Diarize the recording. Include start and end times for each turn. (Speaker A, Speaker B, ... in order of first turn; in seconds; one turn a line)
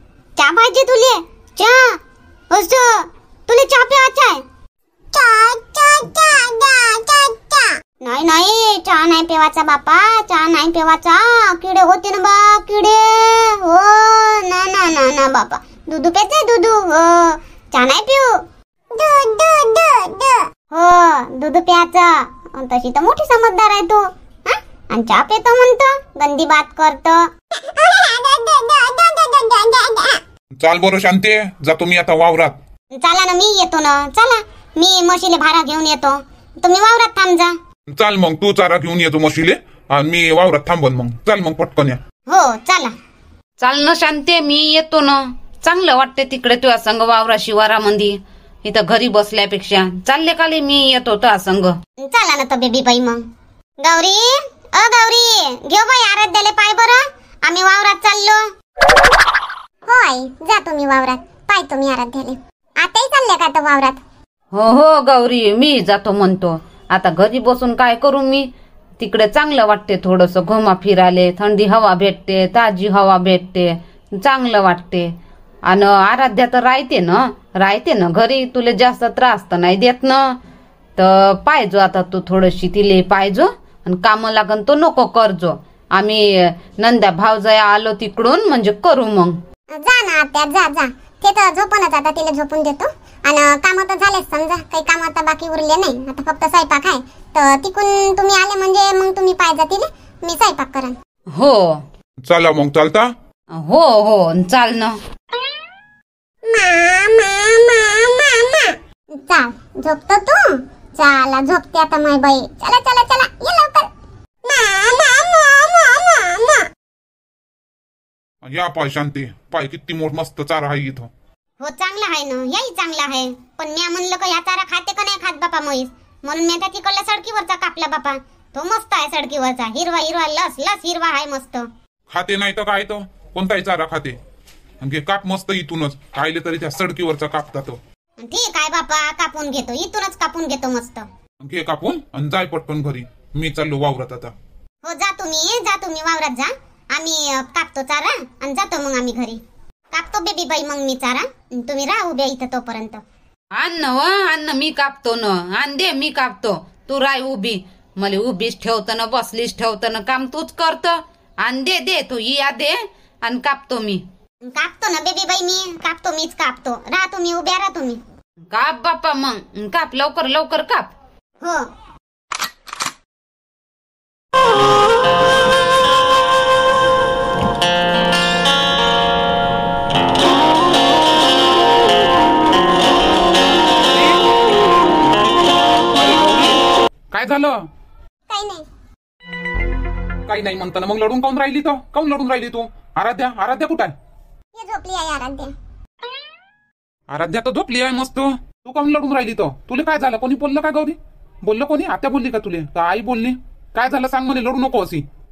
Speaker A: 0.4-2.0
Speaker A: 2.5-4.4
Speaker A: 5.1-18.3
Speaker A: 18.9-30.2
Speaker B: 30.6-32.6
Speaker A: 33.0-37.5
Speaker B: 37.9-42.0
Speaker A: 42.3-42.9
Speaker C: 43.6-51.8
Speaker A: 52.0-53.2
Speaker A: 53.8-58.4
Speaker A: 59.9-64.0
Speaker C: 64.5-68.5
Speaker C: 69.0-75.1
Speaker C: 75.7-80.3
Speaker C: 81.0-89.4
Speaker A: 89.8-101.0
Speaker C: 101.3-101.8
Speaker B: 102.2-103.1
Speaker C: 103.5-105.0
Speaker A: 106.5-113.9
Speaker A: 114.5-116.7
Speaker B: 118.4-121.1
Speaker A: 121.6-131.7
Speaker B: 132.1-134.2
Speaker B: 134.8-137.8
Speaker A: 138.2-141.1
Speaker B: 141.4-144.3
Speaker A: 144.8-149.4
Speaker A: 149.9-153.0
Speaker C: 153.6-164.0
Speaker A: 164.5-168.0
Speaker C: 168.5-170.9
Speaker B: 183.9-184.2
Speaker B: 185.9-187.6
Speaker A: 188.3-188.7
Speaker B: 190.3-193.9
Speaker A: 194.6-195.5
Speaker B: 197.1-205.0